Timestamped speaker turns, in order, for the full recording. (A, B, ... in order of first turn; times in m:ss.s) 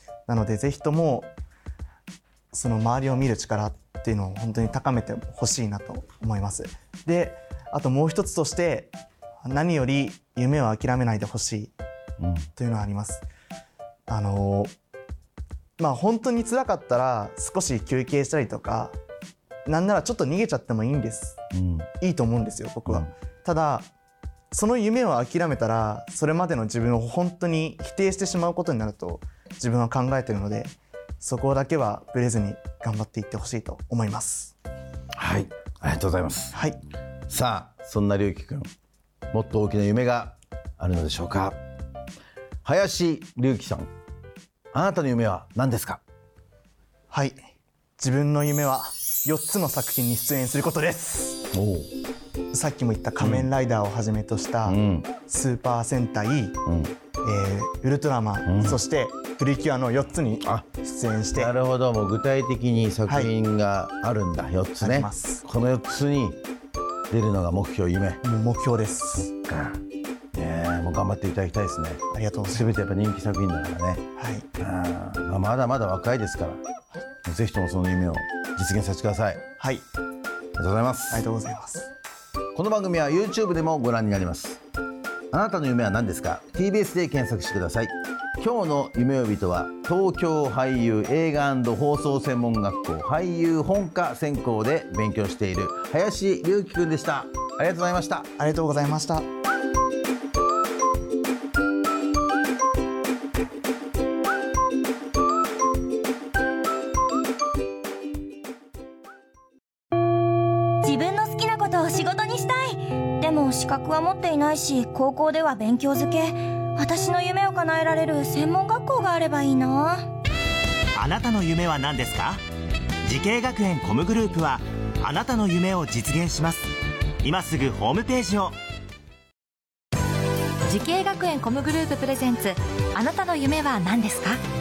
0:00.3-0:01.3 A
0:02.5-0:11.7 A
0:12.2-0:12.5 B
0:12.6-0:13.2 A
0:14.1-0:14.7 A
0:15.8-0:19.0 A
0:19.6-0:21.4 A
0:21.5-0:21.9 B
0:22.0-0:23.9 A
0:24.5-0:34.6 A
0:35.1-0:36.6 B
0:36.5-0:36.8 A
0:37.3-0:38.7 B
0:39.3-0:41.6 B
0:42.6-0:43.9 B
0:44.7-0:46.0 B
0:47.1-0:47.4 A
0:48.0-0:51.4 A
0:51.5-0:51.9 B
0:52.5-0:56.6 A
0:53.2-0:53.5 B
0:54.7-0:55.1 B
0:56.7-0:57.0 B
0:57.2-1:01.5 A
0:58.5-0:58.8 B
1:01.3-1:06.4 B
1:03.1-1:03.3 A
1:04.8-1:05.4 A
1:07.1-1:08.2 B
1:08.2-1:09.3 A
1:09.3-1:09.8 B
1:10.3-1:14.0 B
1:12.1-1:12.8 A
1:14.2-1:14.5 A
1:14.6-1:16.6 B
1:17.2-1:19.4 B
1:19.6-1:19.8 A
1:20.6-1:21.3 B
1:21.1-1:21.9 A
1:22.5-1:24.6 B
1:25.3-1:38.3 B
1:38.4-1:39.3 A
1:50.8-2:00.0 C
2:01.0-2:02.4 D
2:03.0-2:06.6 D
2:07.2-2:08.5 D
2:10.7-2:14.4 E